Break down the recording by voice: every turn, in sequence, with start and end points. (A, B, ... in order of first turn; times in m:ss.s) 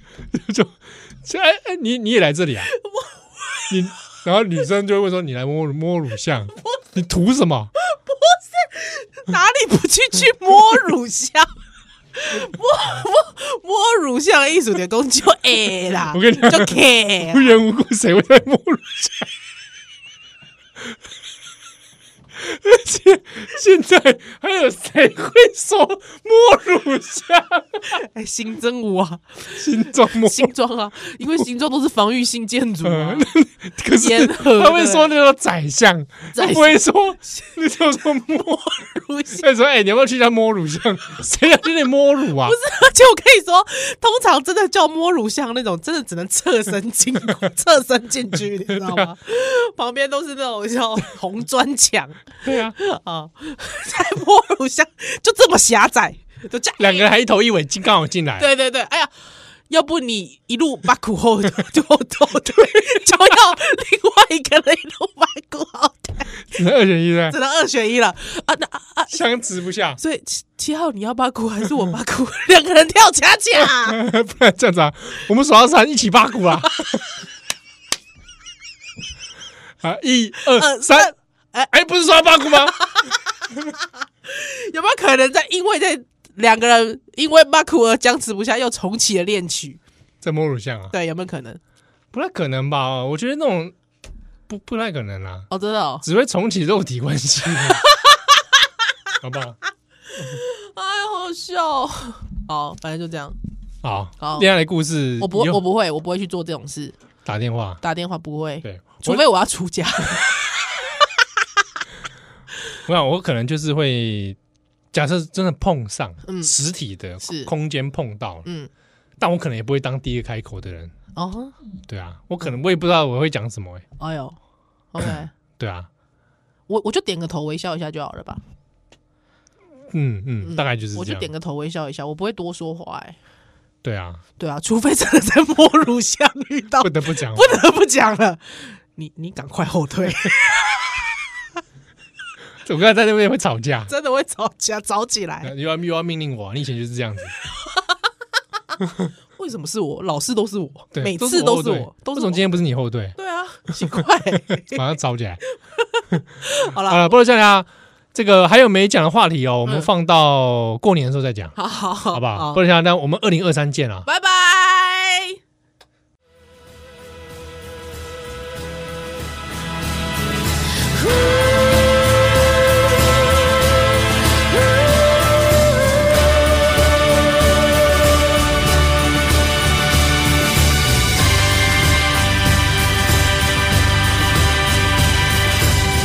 0:00.3-0:02.7 A
0:02.7-0:03.7 B
0:03.7-0:07.7 A
0:07.8-0:11.5 B
0:12.1-0:17.5 B
0:16.1-0:19.3 A
0:22.4-0:27.9 A
0:27.9-0:33.3 B
0:29.6-0:30.5 A
0:32.8-0:38.7 A
0:33.9-0:35.1 B
0:36.3-0:37.6 B
0:38.3-0:39.5 B
0:39.4-0:42.6 A
0:42.4-0:57.1 B
0:48.7-0:49.1 A
0:52.4-0:52.8 A
0:56.8-0:58.5 A
0:58.4-0:59.1 B
0:59.7-1:06.4 B
1:06.4-1:07.4 A
1:07.3-1:09.2 B
1:09.1-1:10.0 A
1:10.0-1:14.0 B
1:13.6-1:17.0 A
1:16.7-1:17.0 B
1:19.8-1:21.1 A
1:20.5-1:21.7 B
1:21.7-1:22.8 A
1:22.3-1:29.8 B
1:30.2-1:30.9 A
1:30.9-1:31.6 B
1:32.1-1:33.7 A
1:34.5-1:35.5 A
1:35.5-1:36.0 B
1:36.0-1:37.8 A
1:37.7-1:38.4 B
1:39.2-1:39.6 A
1:40.2-1:43.4 B
1:43.8-1:45.6 A
1:44.2-1:44.5 B
1:45.2-1:47.0 B
1:47.2-1:47.8 A
1:47.8-1:51.2 B
1:48.6-1:49.2 A
1:52.8-1:54.4 A
1:54.9-1:58.4 A
1:56.2-1:56.5 B
1:57.2-1:57.5 B
1:58.4-1:58.7 B
1:59.2-2:00.9 A
2:01.1-2:01.6 B
2:01.9-2:03.8 A
2:04.0-2:04.4 B
2:04.9-2:05.3 B
2:05.6-2:05.9 A
2:06.7-2:08.4 B
2:09.9-2:11.3 A
2:10.4-2:13.2 B
2:13.8-2:14.2 A
2:14.4-2:21.1 B
2:16.8-2:17.6 A
2:22.6-2:23.9 A
2:23.9-2:25.5 B
2:25.4-2:27.3 A
2:29.4-2:32.4 B
2:30.9-2:33.2 A
2:33.2-2:34.8 B
2:34.6-2:35.4 A
2:35.8-2:37.1 B
2:36.8-2:41.6 A
2:41.6-2:42.6 B
2:42.1-2:44.0 A
2:44.0-2:45.4 B